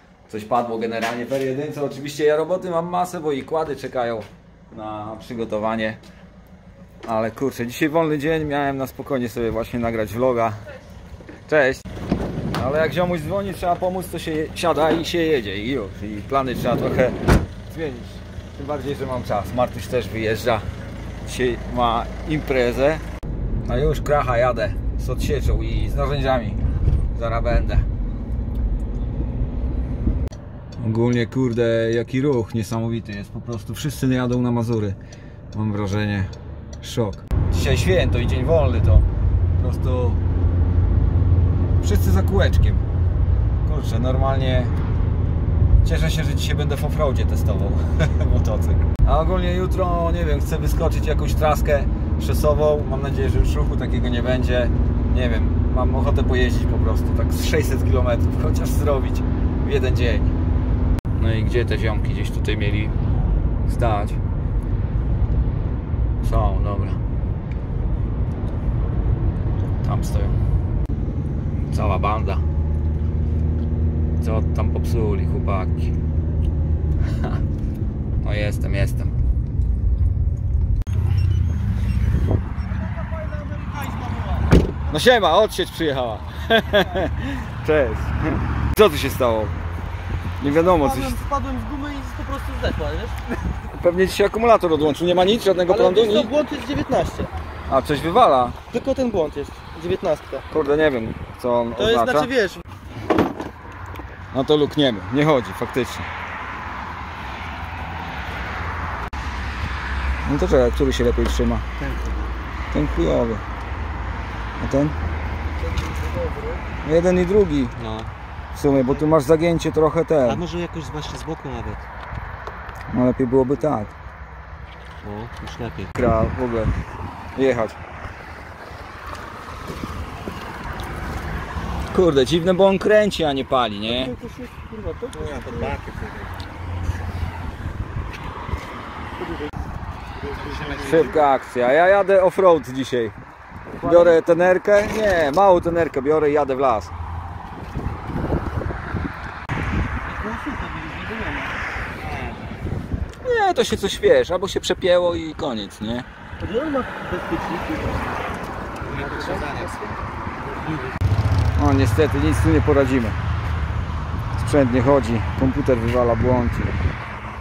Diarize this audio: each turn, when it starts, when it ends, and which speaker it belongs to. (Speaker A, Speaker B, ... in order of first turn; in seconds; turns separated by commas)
Speaker A: 0.3-6.0, Speaker A: 7.0-10.6, Speaker A: 11.4-11.8, Speaker A: 12.5-20.7, Speaker A: 21.2-23.0, Speaker A: 23.6-26.6, Speaker A: 27.1-27.9, Speaker A: 30.8-35.0, Speaker A: 35.5-39.0, Speaker A: 39.6-40.2, Speaker A: 41.8-42.9, Speaker A: 43.6-44.7, Speaker A: 45.8-60.3, Speaker A: 61.1-63.0, Speaker A: 63.6-64.2, Speaker A: 66.2-67.0, Speaker A: 69.8-70.4, Speaker A: 71.7-72.4, Speaker A: 74.2-75.9, Speaker A: 78.2-79.1, Speaker B: 82.9-84.5, Speaker A: 84.9-89.5, Speaker B: 86.7-87.0, Speaker A: 90.4-91.2, Speaker B: 90.4-93.2, Speaker A: 93.7-96.3, Speaker B: 95.7-97.3, Speaker A: 97.7-98.6, Speaker B: 98.7-100.4, Speaker A: 100.5-102.3, Speaker B: 101.8-102.6, Speaker A: 104.3-106.1, Speaker A: 110.2-111.7, Speaker C: 111.8-112.3, Speaker A: 112.7-113.4, Speaker A: 114.6-115.0, Speaker B: 115.6-116.6, Speaker A: 116.8-117.7, Speaker C: 117.8-118.1, Speaker A: 118.5-120.4, Speaker C: 120.2-121.8, Speaker A: 122.9-123.9, Speaker C: 125.0-125.9, Speaker A: 125.9-126.7, Speaker A: 127.3-127.8, Speaker A: 131.9-134.1, Speaker B: 133.8-135.8, Speaker C: 135.1-136.3, Speaker B: 140.3-141.1, Speaker C: 140.4-141.1, Speaker A: 140.8-143.1, Speaker B: 143.8-144.3, Speaker A: 143.8-146.9, Speaker B: 150.0-152.4, Speaker A: 153.2-156.1, Speaker B: 156.4-158.0, Speaker B: 158.9-159.9, Speaker C: 158.9-159.8, Speaker A: 161.6-163.2, Speaker A: 164.3-166.8